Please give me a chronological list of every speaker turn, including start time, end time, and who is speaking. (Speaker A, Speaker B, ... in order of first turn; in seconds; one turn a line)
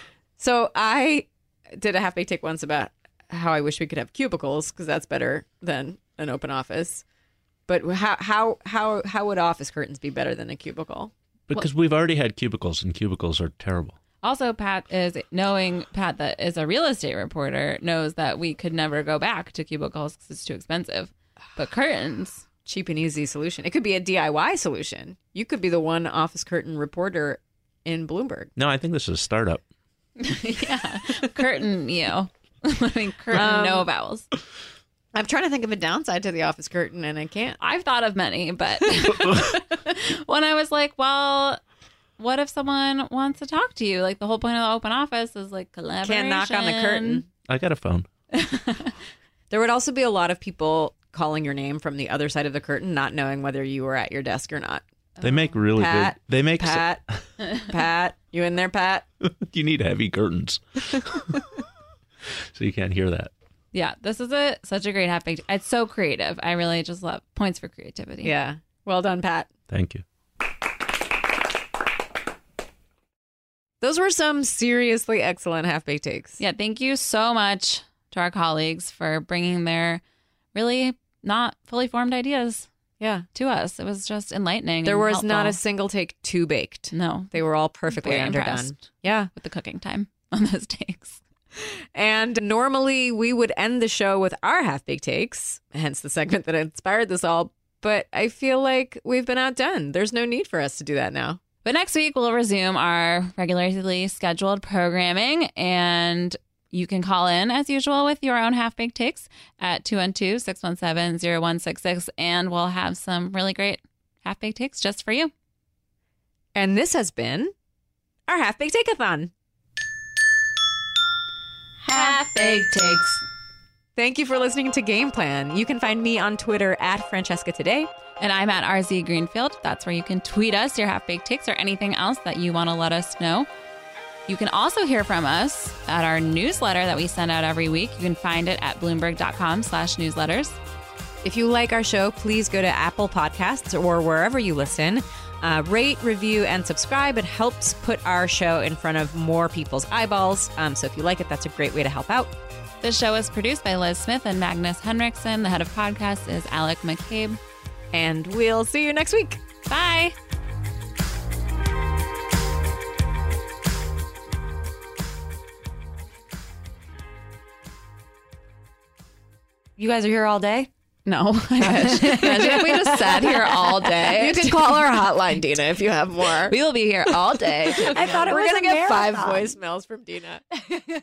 Speaker A: 0.4-7.0
Speaker A: 7.7-11.1
Speaker B: 11.5-14.0
Speaker C: 14.2-22.4
Speaker A: 22.6-28.5
Speaker B: 28.6-29.6
Speaker C: 30.2-34.2
Speaker A: 33.3-33.9
Speaker A: 35.1-37.6
Speaker C: 37.6-41.6
Speaker C: 42.2-47.2
Speaker A: 46.0-47.3
Speaker B: 47.5-48.1
Speaker C: 48.3-48.9
Speaker A: 49.5-59.0
Speaker B: 55.2-57.2
Speaker B: 59.2-61.4
Speaker B: 62.5-63.3
Speaker C: 63.7-68.3
Speaker A: 68.2-69.5
Speaker B: 69.7-70.0
Speaker A: 73.8-76.4
Speaker C: 76.4-80.0
Speaker C: 80.5-82.7
Speaker A: 83.0-83.2
Speaker C: 83.3-85.6
Speaker A: 84.8-89.3
Speaker C: 86.9-87.3
Speaker C: 87.9-91.2
Speaker A: 91.9-101.4
Speaker C: 101.6-115.3
Speaker A: 116.5-117.5
Speaker A: 118.3-119.3
Speaker C: 121.9-123.2
Speaker A: 124.0-127.9
Speaker C: 128.2-133.5
Speaker C: 134.3-140.6
Speaker A: 141.2-152.3
Speaker C: 152.8-157.4
Speaker A: 157.9-159.4
Speaker C: 159.7-160.1
Speaker D: 169.8-170.7
Speaker C: 171.1-174.8
Speaker D: 171.6-173.3
Speaker A: 171.8-176.6
Speaker C: 176.5-178.2
Speaker A: 177.4-180.4
Speaker D: 178.0-179.5